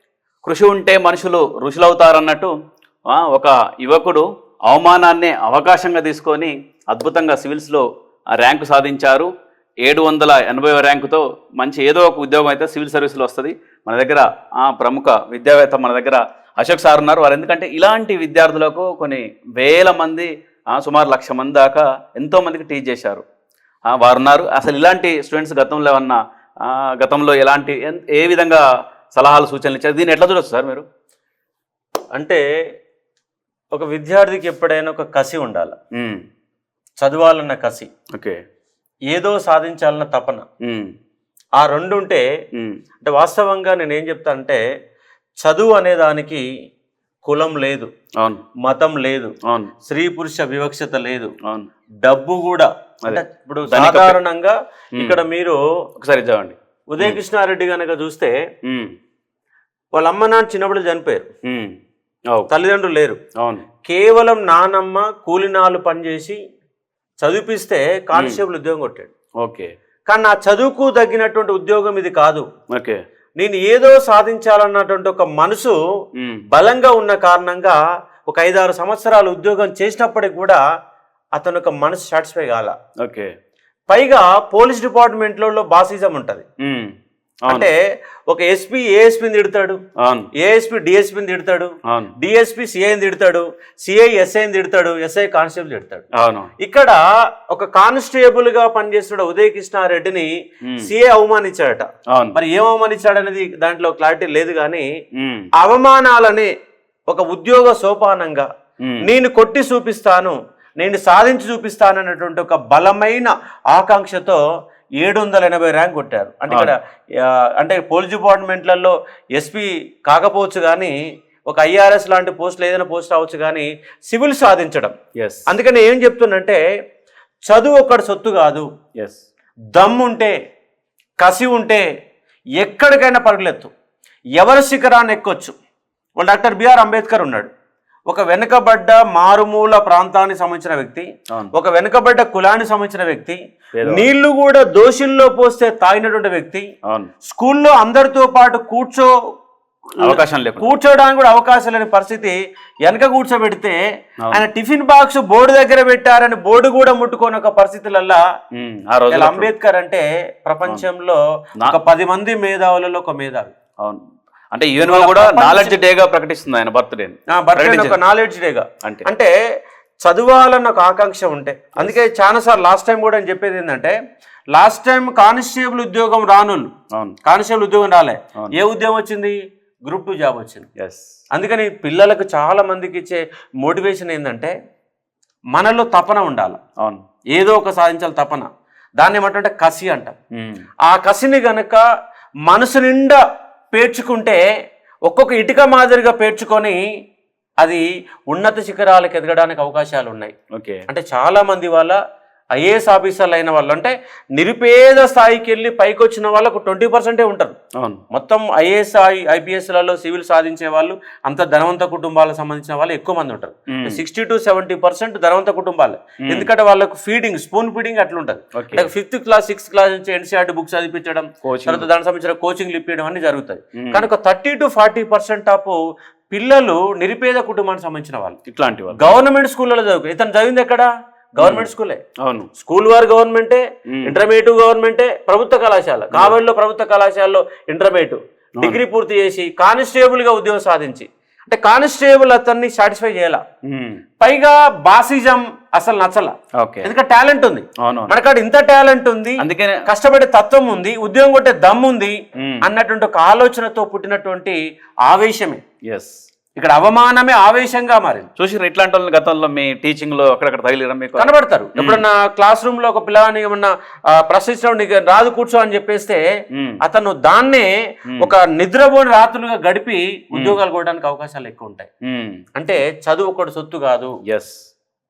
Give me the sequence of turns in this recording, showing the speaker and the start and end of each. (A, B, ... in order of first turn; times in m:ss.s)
0:00.4-0:02.5 A
0:03.1-0:09.3 A
0:09.8-0:23.2 A
0:23.9-0:30.9 A
0:32.2-0:32.4 B
0:33.7-0:35.8 B
0:36.0-0:36.2 A
0:37.0-0:37.9 B
0:38.1-0:38.4 A
0:39.1-0:40.4 B
0:40.6-0:40.9 A
0:41.6-0:42.2 B
0:43.0-0:44.6 B
0:45.4-0:46.4 B
0:47.2-0:47.9 B
0:48.6-0:49.3 B
0:49.5-0:49.7 A
0:49.9-0:51.3 B
0:52.0-0:55.6 B
0:53.0-0:54.2 A
0:56.0-0:57.2 A
0:56.9-0:58.3 B
0:58.7-0:58.9 A
0:59.9-1:01.3 B
1:01.5-1:01.8 A
1:02.5-1:03.2 B
1:03.4-1:03.6 A
1:03.8-1:06.4 B
1:07.2-1:09.1 B
1:08.2-1:08.4 A
1:09.4-1:09.7 A
1:10.1-1:12.4 B
1:12.7-1:13.0 A
1:13.4-1:15.8 B
1:16.5-1:20.6 B
1:21.4-1:22.7 B
1:23.0-1:23.3 A
1:23.9-1:26.5 B
1:26.6-1:26.9 A
1:27.5-1:27.7 B
1:28.3-1:29.8 B
1:30.0-1:30.3 A
1:30.4-1:36.1 B
1:36.2-1:36.5 A
1:36.6-1:40.3 B
1:40.8-1:44.9 B
1:45.2-1:45.5 A
1:45.6-1:46.5 B
1:47.1-1:48.5 B
1:49.0-1:54.4 B
1:55.0-1:56.8 B
1:57.6-2:00.9 B
2:01.5-2:04.9 B
2:05.2-2:05.5 A
2:05.5-2:06.6 B
2:07.5-2:08.7 B
2:09.7-2:10.3 B
2:11.2-2:11.8 B
2:12.6-2:13.7 B
2:14.4-2:15.6 B
2:16.2-2:17.5 B
2:18.1-2:26.6 B
2:23.8-2:24.0 A
2:27.3-2:29.1 B
2:30.0-2:30.7 A
2:30.0-2:32.4 B
2:32.9-2:33.8 B
2:34.3-2:38.2 B
2:38.6-2:39.5 A
2:39.1-2:43.5 B
2:44.5-2:48.0 A
2:44.8-2:45.8 B
2:47.4-2:49.3 B
2:50.0-2:54.0 B
2:54.5-2:56.7 B
2:57.2-2:59.4 B
2:59.9-3:00.7 B
3:00.8-3:01.1 A
3:01.3-3:04.5 B
3:05.5-3:06.6 B
3:07.3-3:08.5 B
3:09.0-3:10.2 B
3:10.4-3:10.6 A
3:10.9-3:11.8 B
3:12.5-3:13.2 B
3:13.7-3:14.4 B
3:15.1-3:16.8 B
3:17.6-3:20.4 B
3:20.5-3:20.8 A
3:20.9-3:22.0 B
3:22.6-3:27.6 B
3:28.1-3:45.8 B
3:33.7-3:34.0 A
3:38.6-3:38.9 A
3:41.4-3:41.9 A
3:43.8-3:44.1 A
3:46.3-3:48.4 B
3:48.5-3:49.0 A
3:49.0-3:52.0 B
3:51.4-3:51.7 A
3:52.2-3:52.5 A
3:52.6-4:03.4 B
4:03.7-4:04.0 A
4:04.2-4:06.3 B
4:06.6-4:06.9 A
4:06.8-4:15.6 B
4:07.8-4:08.1 A
4:09.4-4:09.9 A
4:12.4-4:12.6 A
4:15.9-4:16.2 A
4:16.6-4:18.3 B
4:18.4-4:22.0 A
4:21.2-4:26.2 B
4:26.8-4:31.9 B
4:32.0-4:32.4 A
4:32.6-4:34.1 B
4:34.3-4:34.6 A